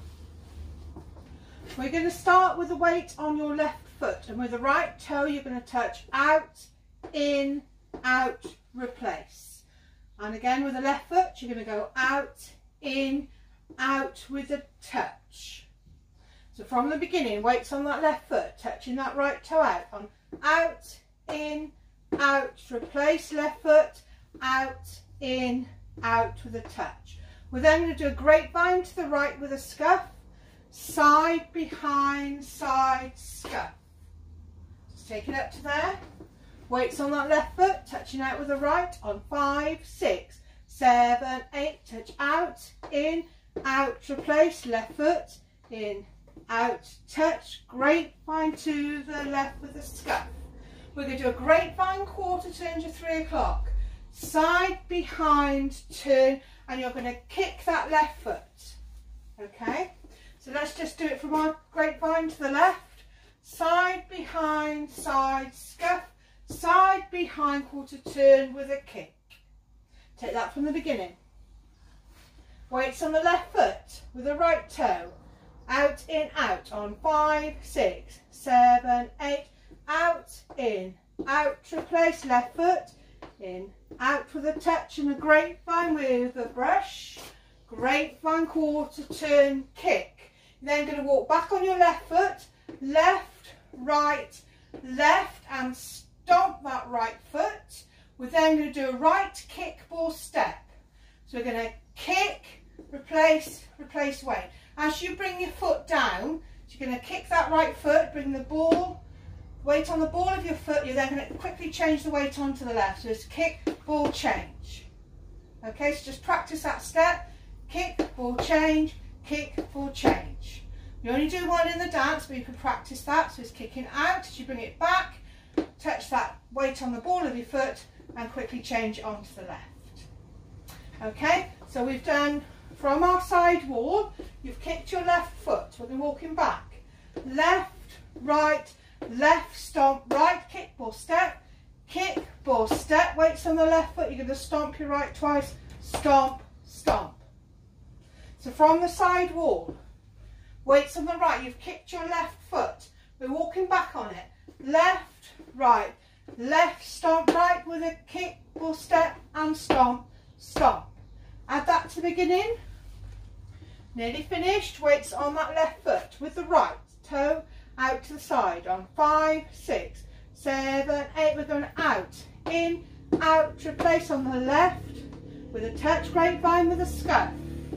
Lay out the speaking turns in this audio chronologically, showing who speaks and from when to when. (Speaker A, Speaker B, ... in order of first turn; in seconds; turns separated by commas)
Speaker A: 1.7-9.6, Speaker A: 10.2-15.7, Speaker A: 16.5-30.2, Speaker A: 30.7-33.7, Speaker A: 34.9-36.0, Speaker A: 36.7-50.4, Speaker A: 50.9-58.8, Speaker A: 59.4-69.4, Speaker A: 70.2-71.2, Speaker A: 72.7-75.2, Speaker A: 75.7-100.7, Speaker A: 101.3-109.0, Speaker A: 109.6-114.9, Speaker A: 115.6-125.2, Speaker A: 125.8-130.1, Speaker A: 131.0-147.2, Speaker A: 148.4-149.7, Speaker A: 150.6-160.9, Speaker A: 161.5-162.6, Speaker A: 163.9-177.4